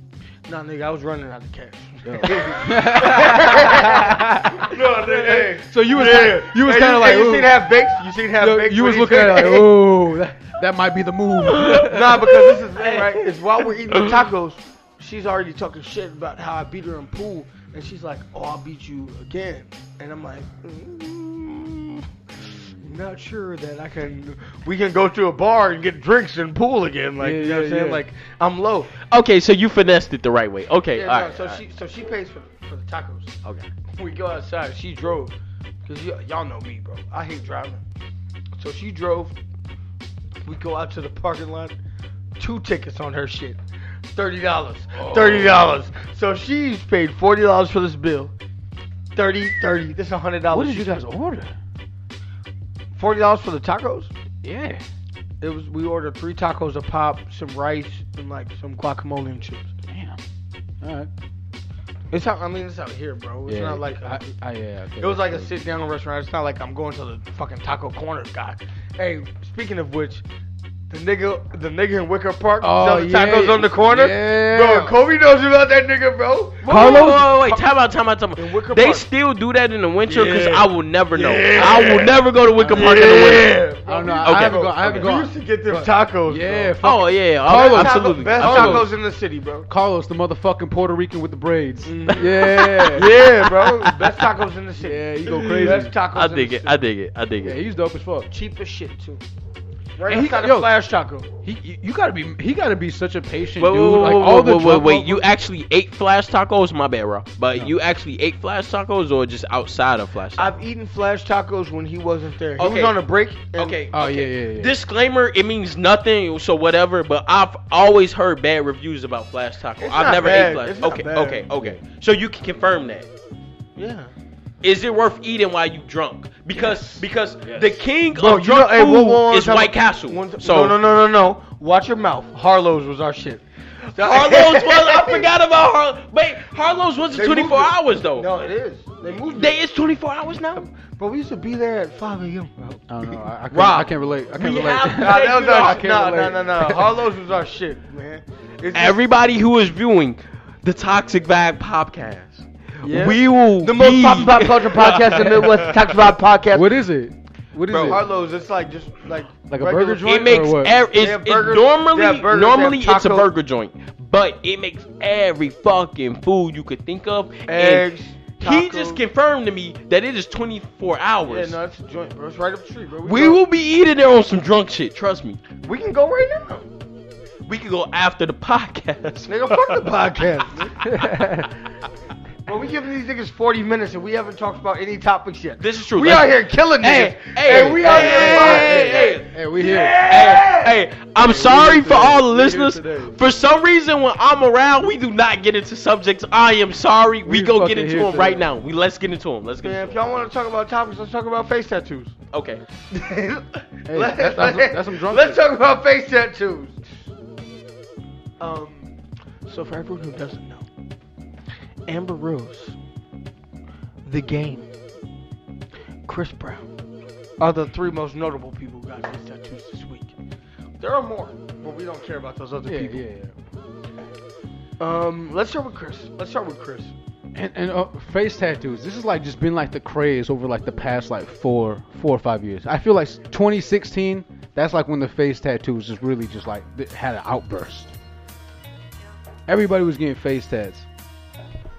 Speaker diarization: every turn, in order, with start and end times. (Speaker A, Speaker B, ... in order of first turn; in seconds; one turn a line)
Speaker A: 0.5-9.8
Speaker B: 2.0-7.7
Speaker B: 8.4-12.4
Speaker C: 11.4-13.1
Speaker A: 11.8-22.1
Speaker B: 22.4-22.9
Speaker A: 22.8-28.9
Speaker B: 27.2-28.0
Speaker C: 29.0-31.6
Speaker A: 30.9-33.4
Speaker A: 34.0-35.3
Speaker A: 35.9-37.8
Speaker A: 38.5-39.3
Speaker A: 40.4-41.7
Speaker A: 42.4-43.6
Speaker A: 44.1-48.3
Speaker B: 44.9-45.7
Speaker A: 49.1-51.0
Speaker B: 50.5-51.5
Speaker A: 53.0-54.1
Speaker B: 54.4-54.8
Speaker A: 55.4-59.7
Speaker B: 59.9-60.2
Speaker B: 60.8-61.1
Speaker A: 62.1-64.2
Speaker B: 63.5-65.6
Speaker A: 65.0-70.2
Speaker A: 70.9-77.6
Speaker B: 72.6-74.9
Speaker C: 76.6-83.5
Speaker B: 76.7-77.3
Speaker A: 78.4-79.1
Speaker A: 80.1-86.8
Speaker B: 82.6-83.3
Speaker B: 83.9-88.9
Speaker C: 84.2-85.1
Speaker C: 86.8-88.9
Speaker A: 87.4-89.7
Speaker B: 89.7-93.1
Speaker A: 91.8-96.8
Speaker C: 92.4-94.2
Speaker B: 94.8-95.9
Speaker C: 95.3-97.6
Speaker B: 97.4-98.3
Speaker A: 98.3-99.2
Speaker A: 100.0-101.3
Speaker B: 100.1-100.7
Speaker B: 101.4-105.2
Speaker C: 103.6-110.5
Speaker A: 110.4-113.8
Speaker C: 112.6-113.0
Speaker C: 113.6-123.1
Speaker B: 113.9-114.8
Speaker A: 119.8-121.5
Speaker A: 123.8-124.1
Speaker C: 124.6-130.8
Speaker B: 127.4-127.7
Speaker A: 128.1-135.3
Speaker C: 134.0-138.3
Speaker A: 137.1-139.6
Speaker C: 139.3-140.7
Speaker A: 140.6-143.2
Speaker B: 142.9-146.8
Speaker C: 143.5-146.2
Speaker A: 144.9-149.0
Speaker C: 148.7-156.2
Speaker A: 152.8-156.7
Speaker B: 156.5-158.0
Speaker C: 157.7-158.0
Speaker A: 157.8-160.3
Speaker B: 159.5-160.8
Speaker C: 160.0-167.9
Speaker A: 160.9-163.3
Speaker A: 167.5-169.0
Speaker C: 168.4-171.6
Speaker A: 171.2-173.4
Speaker C: 173.0-175.4
Speaker A: 175.6-176.7
Speaker C: 177.4-179.9
Speaker A: 179.3-180.8
Speaker B: 180.8-181.5
Speaker A: 182.5-190.8
Speaker C: 185.6-189.3
Speaker B: 187.5-190.0
Speaker C: 190.0-200.3
Speaker B: 191.2-193.2
Speaker B: 197.2-198.5
Speaker A: 199.6-202.2
Speaker C: 202.3-202.6
Speaker A: 202.9-206.8
Speaker B: 203.9-205.4
Speaker A: 208.4-208.9
Speaker A: 209.5-210.7
Speaker A: 211.9-212.8
Speaker A: 214.1-214.7
Speaker A: 216.1-216.7
Speaker A: 217.4-220.2
Speaker A: 220.8-223.0
Speaker B: 222.7-223.3
Speaker A: 224.8-226.9
Speaker B: 227.3-237.9
Speaker B: 239.5-240.9